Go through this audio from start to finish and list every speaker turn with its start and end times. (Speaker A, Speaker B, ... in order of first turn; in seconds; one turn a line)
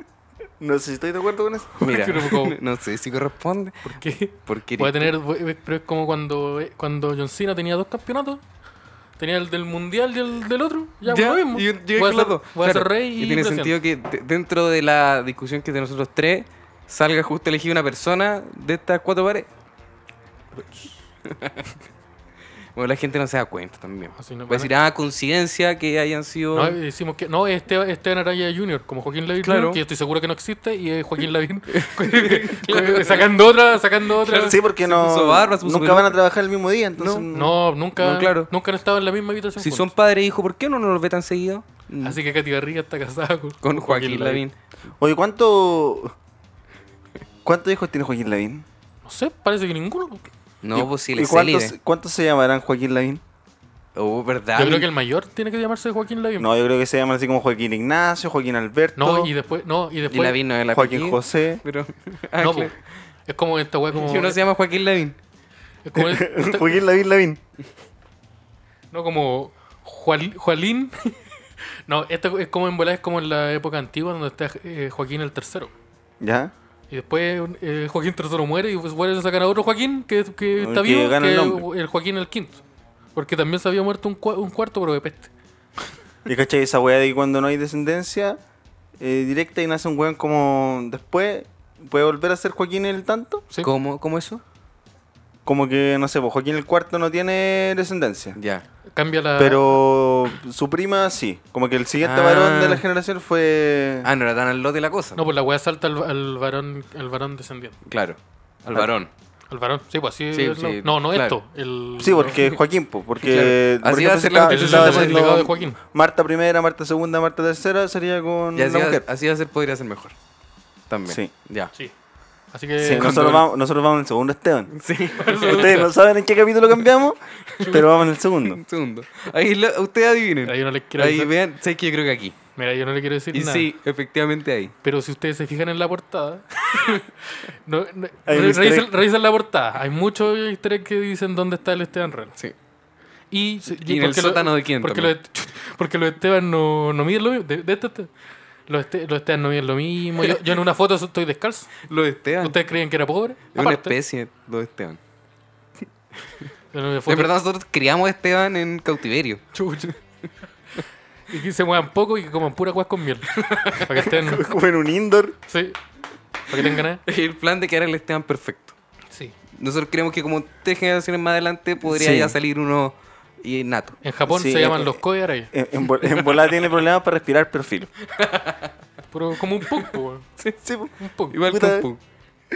Speaker A: 0.6-1.7
Speaker B: 1.8-2.6
Speaker C: 1.8-3.9
Speaker B: 3.9-8.4
Speaker C: 4.5-5.1
Speaker B: 9.2-13.8
Speaker C: 11.1-19.5
Speaker C: 21.2-21.7
Speaker C: 22.8-26.8
Speaker B: 24.2-24.7
Speaker B: 26.5-34.6
Speaker C: 29.4-29.8
Speaker C: 31.7-33.3
Speaker C: 34.1-36.2
Speaker A: 34.4-37.6
Speaker C: 37.0-37.3
Speaker B: 37.3-39.9
Speaker C: 38.0-38.5
Speaker C: 39.6-42.2
Speaker B: 42.0-44.4
Speaker C: 43.6-44.5
Speaker A: 45.0-46.1
Speaker A: 47.4-48.6
Speaker B: 49.0-50.2
Speaker C: 50.6-51.7
Speaker A: 50.7-53.2
Speaker C: 54.0-54.9
Speaker B: 54.6-56.5
Speaker A: 56.4-59.3
Speaker B: 59.0-60.4
Speaker C: 60.1-62.8
Speaker A: 60.7-61.6
Speaker B: 62.4-62.7
Speaker B: 63.3-64.4
Speaker C: 63.9-65.2
Speaker B: 65.8-66.7
Speaker A: 66.0-67.4
Speaker B: 68.9-71.2
Speaker B: 71.9-75.7
Speaker A: 76.2-76.5
Speaker B: 76.9-82.6
Speaker A: 80.6-81.7
Speaker B: 83.2-85.3
Speaker A: 86.2-88.4
Speaker A: 89.0-93.5
Speaker C: 93.6-94.4
Speaker A: 95.5-98.4
Speaker C: 98.4-98.7
Speaker B: 98.9-99.8
Speaker A: 99.4-104.1
Speaker C: 102.0-102.8
Speaker C: 104.0-105.2
Speaker B: 105.2-107.8
Speaker C: 107.9-109.1
Speaker B: 109.5-112.4
Speaker C: 110.3-111.4
Speaker A: 112.0-119.0
Speaker C: 113.2-115.4
Speaker B: 114.4-115.8
Speaker C: 118.5-120.2
Speaker C: 120.9-121.7
Speaker A: 121.1-121.3
Speaker B: 122.5-123.3
Speaker A: 122.8-124.7
Speaker C: 123.0-123.4
Speaker C: 124.7-125.8
Speaker B: 125.2-125.9
Speaker A: 125.5-128.6
Speaker C: 127.5-127.9
Speaker B: 127.6-127.8
Speaker C: 128.4-132.4
Speaker B: 130.4-131.3
Speaker B: 132.6-133.7
Speaker C: 133.3-134.7
Speaker B: 134.8-142.3
Speaker A: 138.3-139.0
Speaker B: 143.3-148.1
Speaker C: 143.7-145.2
Speaker B: 148.7-151.8
Speaker C: 151.8-152.6
Speaker B: 152.4-154.0
Speaker C: 153.5-155.0
Speaker B: 156.7-157.3
Speaker C: 157.1-159.4
Speaker B: 159.5-159.9
Speaker B: 161.3-164.5
Speaker C: 163.3-163.9
Speaker A: 164.1-165.4
Speaker B: 165.5-165.8
Speaker B: 166.5-167.0
Speaker C: 166.6-168.8
Speaker C: 169.6-174.0
Speaker A: 171.8-172.4
Speaker B: 174.0-175.5
Speaker A: 174.3-175.0
Speaker A: 175.5-177.9
Speaker C: 176.1-176.6
Speaker C: 178.0-178.7
Speaker B: 179.1-180.3
Speaker C: 179.7-180.7
Speaker A: 180.6-181.9
Speaker B: 181.0-181.4
Speaker C: 181.3-182.0